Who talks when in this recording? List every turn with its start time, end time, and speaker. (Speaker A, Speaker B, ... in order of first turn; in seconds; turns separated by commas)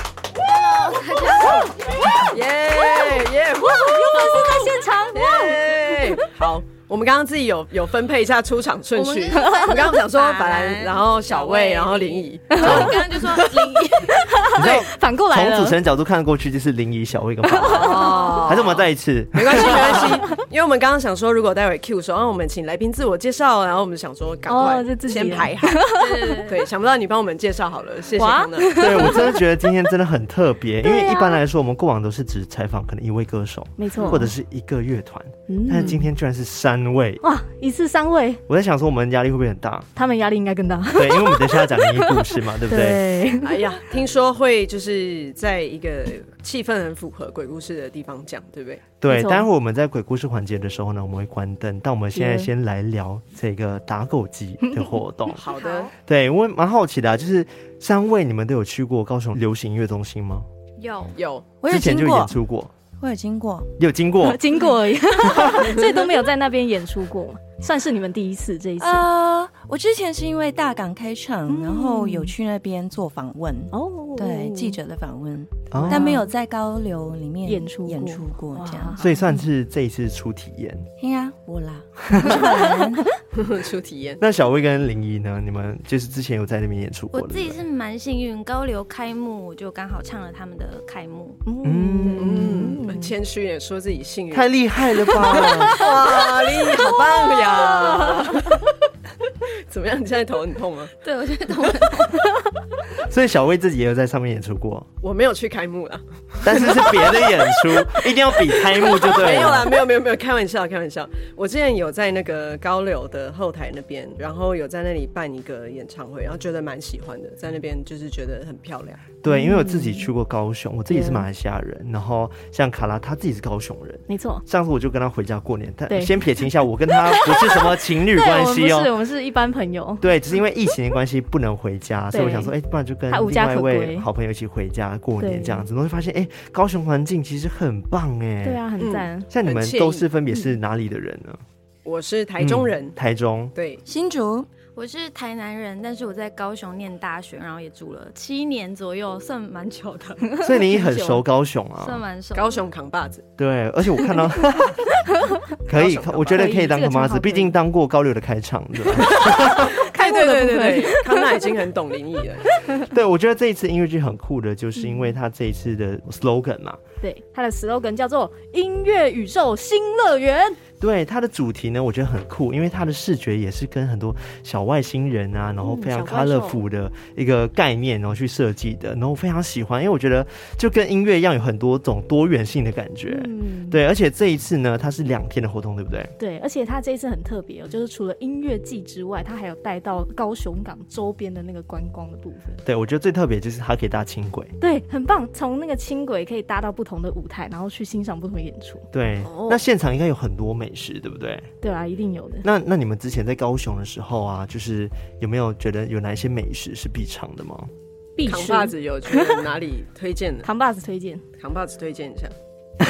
Speaker A: 0.4-2.3, Speaker B: 2.2-13.1, Speaker C: 3.6-5.8, Speaker A: 8.9-14.2, Speaker C: 9.4-9.7, Speaker C: 12.5-15.8, Speaker D: 12.6-12.9, Speaker D: 14.6-20.2, Speaker C: 17.4-18.4, Speaker B: 17.7-29.2, Speaker C: 24.5-26.5, Speaker A: 25.9-26.6, Speaker C: 28.1-29.5, Speaker D: 28.8-37.2, Speaker C: 30.8-31.4, Speaker C: 33.8-34.4, Speaker B: 34.0-34.3, Speaker C: 35.5-36.1, Speaker C: 37.2-38.4, Speaker D: 38.5-39.9, Speaker C: 40.0-43.8, Speaker D: 41.0-43.1, Speaker B: 43.4-48.9, Speaker D: 49.0-55.4, Speaker C: 49.1-49.5, Speaker C: 52.1-52.5, Speaker C: 54.6-55.0, Speaker B: 55.3-55.9, Speaker A: 55.5-55.9, Speaker D: 56.0-60.5, Speaker A: 60.8-61.2, Speaker B: 61.2-61.5, Speaker E: 61.6-62.4, Speaker D: 61.7-62.7, Speaker E: 63.0-63.8, Speaker D: 63.8-64.5, Speaker C: 64.2-69.0, Speaker D: 65.2-65.8, Speaker E: 68.8-79.0, Speaker C: 71.5-72.3, Speaker C: 73.7-74.8, Speaker D: 75.7-76.2, Speaker C: 75.8-76.3, Speaker C: 77.5-79.4, Speaker D: 79.0-80.9, Speaker E: 81.0-83.1, Speaker D: 82.1-82.4, Speaker C: 82.5-83.2, Speaker B: 83.3-84.2, Speaker D: 84.2-87.6, Speaker A: 87.1-91.4, Speaker C: 91.5-93.2, Speaker D: 91.6-92.8, Speaker B: 92.2-94.5, Speaker D: 94.3-95.8, Speaker B: 95.1-98.7, Speaker C: 97.9-98.6, Speaker B: 99.7-100.9, Speaker A: 101.0-102.3, Speaker D: 103.0-104.9, Speaker B: 105.0-119.1, Speaker D: 106.4-109.8, Speaker D: 119.2-128.9, Speaker C: 119.2-120.1, Speaker C: 120.9-121.3, Speaker C: 124.1-124.4, Speaker C: 125.9-126.2, Speaker C: 126.9-130.1, Speaker D: 130.0-138.7, Speaker C: 132.1-132.6, Speaker C: 133.1-134.1, Speaker C: 135.2-135.7, Speaker C: 138.4-139.3, Speaker B: 138.8-140.1, Speaker D: 139.3-141.4, Speaker B: 141.8-143.0, Speaker D: 142.4-143.5, Speaker B: 143.6-143.8, Speaker E: 143.9-144.5, Speaker A: 144.8-150.3, Speaker C: 150.3-151.2, Speaker D: 150.4-152.0, Speaker A: 151.8-152.6, Speaker B: 152.3-153.3, Speaker D: 153.4-155.0, Speaker D: 155.7-159.8, Speaker B: 155.7-156.5, Speaker C: 156.3-157.6, Speaker C: 158.9-161.4, Speaker B: 159.5-162.5, Speaker D: 162.8-166.8, Speaker C: 164.8-165.1, Speaker C: 167.0-170.6, Speaker D: 170.8-186.1, Speaker C: 175.6-176.6, Speaker C: 183.1-183.8, Speaker C: 186.2-192.6, Speaker D: 192.6-194.6, Speaker C: 194.6-198.9, Speaker D: 198.9-201.5, Speaker B: 199.2-199.6, Speaker C: 201.6-202.4, Speaker D: 202.4-207.7, Speaker C: 208.2-209.4, Speaker B: 208.2-210.5, Speaker C: 210.4-211.2, Speaker B: 211.4-212.3